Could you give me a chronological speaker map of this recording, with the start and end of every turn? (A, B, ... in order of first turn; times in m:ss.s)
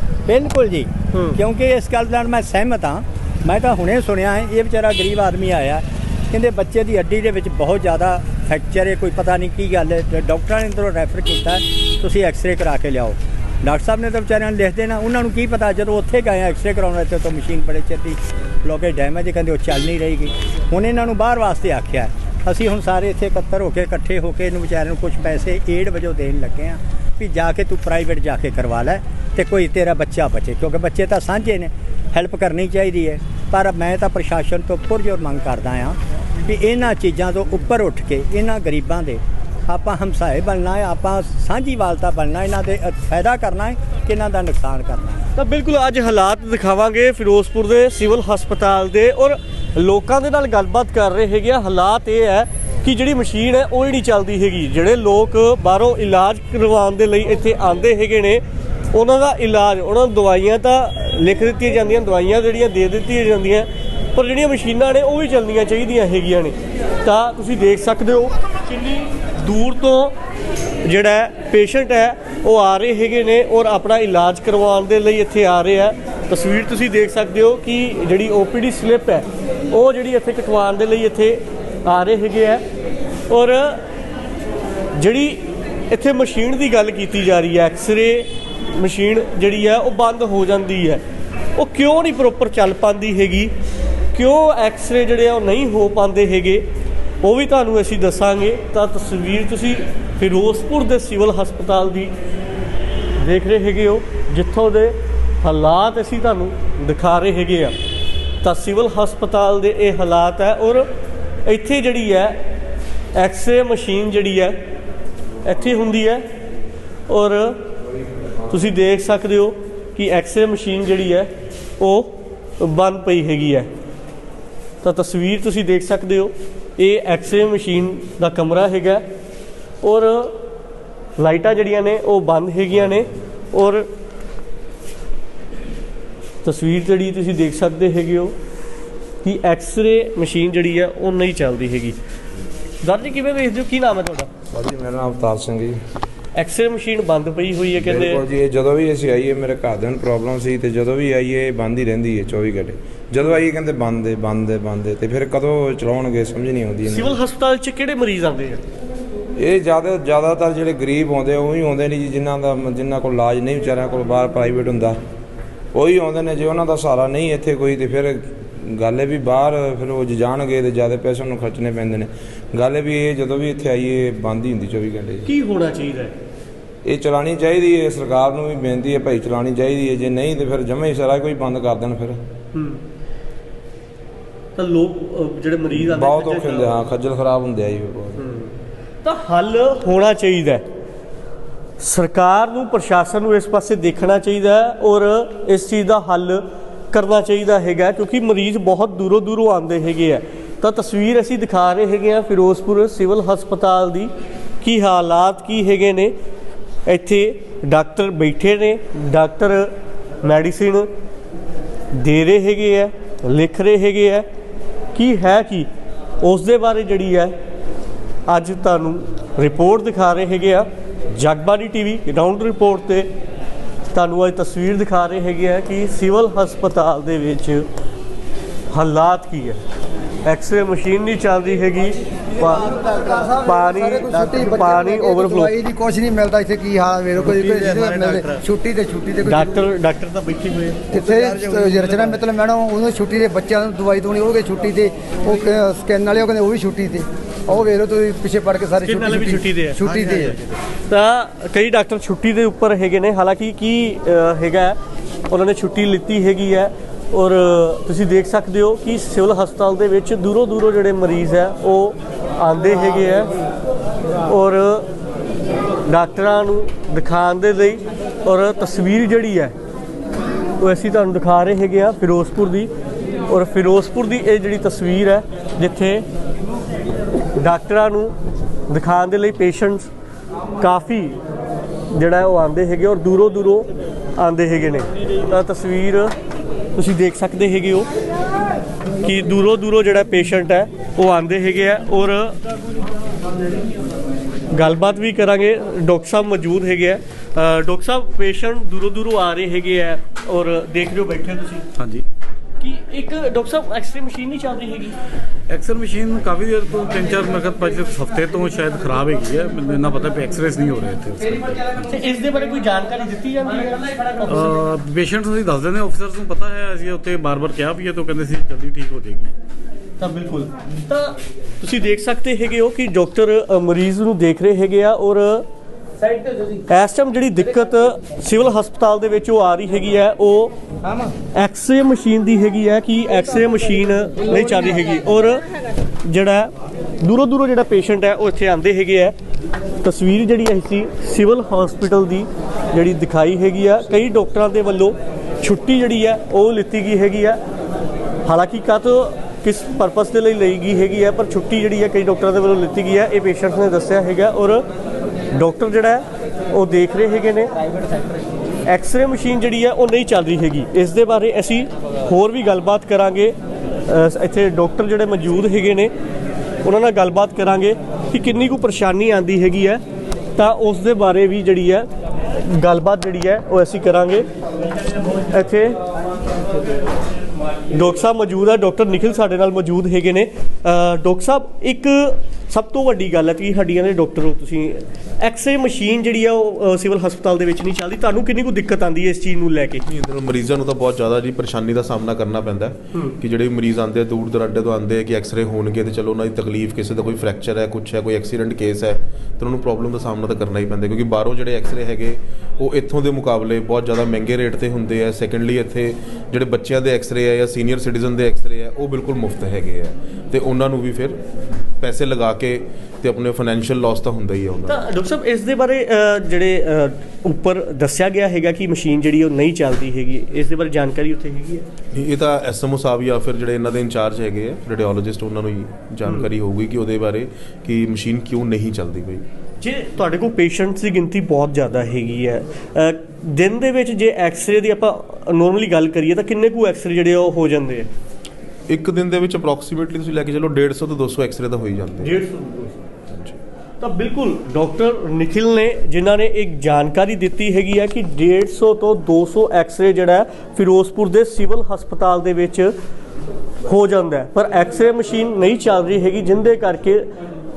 0:00.3-0:45.2 A
0:01.1-0:01.4 B
0:45.4-1:10.2 B
1:10.8-1:22.6 B
1:23.3-1:23.8 B
1:25.0-1:31.0 B
1:31.6-1:33.5 B
1:34.1-1:36.7 B
1:37.2-1:42.2 B
1:43.2-1:47.8 B
1:48.4-1:50.9 B
1:51.4-1:52.4 B
1:53.2-1:54.6 B
1:55.4-1:56.3 B
1:57.1-1:57.7 B
1:58.5-2:03.7 B
2:04.8-2:09.0 B
2:09.8-2:10.4 B
2:11.2-2:13.9 B
2:16.4-2:18.4 B
2:19.2-2:22.0 B
2:22.8-2:24.3 B
2:24.5-2:25.8 C
2:26.4-2:28.2 B
2:27.8-2:37.2 C
2:36.9-2:38.6 B
2:39.4-2:45.0 C
2:45.7-2:55.3 C
2:55.2-2:56.1 B
2:56.8-3:02.2 C
3:02.5-3:02.8 B
3:04.6-3:06.7 B
3:05.8-3:08.2 C
3:08.2-3:08.5 B
3:09.0-3:10.6 B
3:11.8-3:26.2 B
3:26.9-3:30.9 B
3:31.9-3:34.3 B
3:34.9-3:35.7 B
3:36.2-3:37.4 B
3:38.3-3:43.1 B
3:43.9-3:47.7 B
3:48.7-3:49.6 B
3:50.2-3:52.7 B
3:52.4-3:59.6 D
3:53.4-3:55.5 B
3:59.2-4:00.8 B
4:00.9-4:10.4 D
4:08.8-4:10.3 B
4:10.9-4:14.8 B
4:15.3-4:23.3 B
4:24.3-4:24.9 B
4:25.8-4:29.5 B
4:30.6-4:32.7 B
4:33.3-4:36.0 B
4:37.4-4:38.1 B
4:38.7-4:39.9 B
4:40.6-4:41.2 B
4:41.9-4:46.1 B
4:46.8-4:47.9 B
4:49.0-4:52.4 B
4:54.5-5:01.7 B
5:02.6-5:05.0 B
5:05.6-5:11.5 E
5:11.8-5:14.5 B
5:14.7-5:19.3 E
5:20.0-5:25.5 B
5:26.7-5:30.5 B
5:31.3-5:35.5 B
5:36.0-5:39.2 B
5:39.8-5:47.4 B
5:48.2-5:54.7 B
5:55.3-5:57.5 B
5:58.7-6:05.9 B
6:06.6-6:09.8 B
6:10.4-6:11.9 B
6:12.4-6:14.3 B
6:15.3-6:15.8 B
6:17.7-6:29.8 B
6:29.8-6:51.2 F
6:51.8-6:54.8 F
6:54.7-7:01.7 B
7:01.9-7:09.2 F
7:09.6-7:17.9 B
7:18.7-7:22.2 F
7:22.0-7:22.8 B
7:23.8-7:32.7 B
7:33.7-7:37.1 B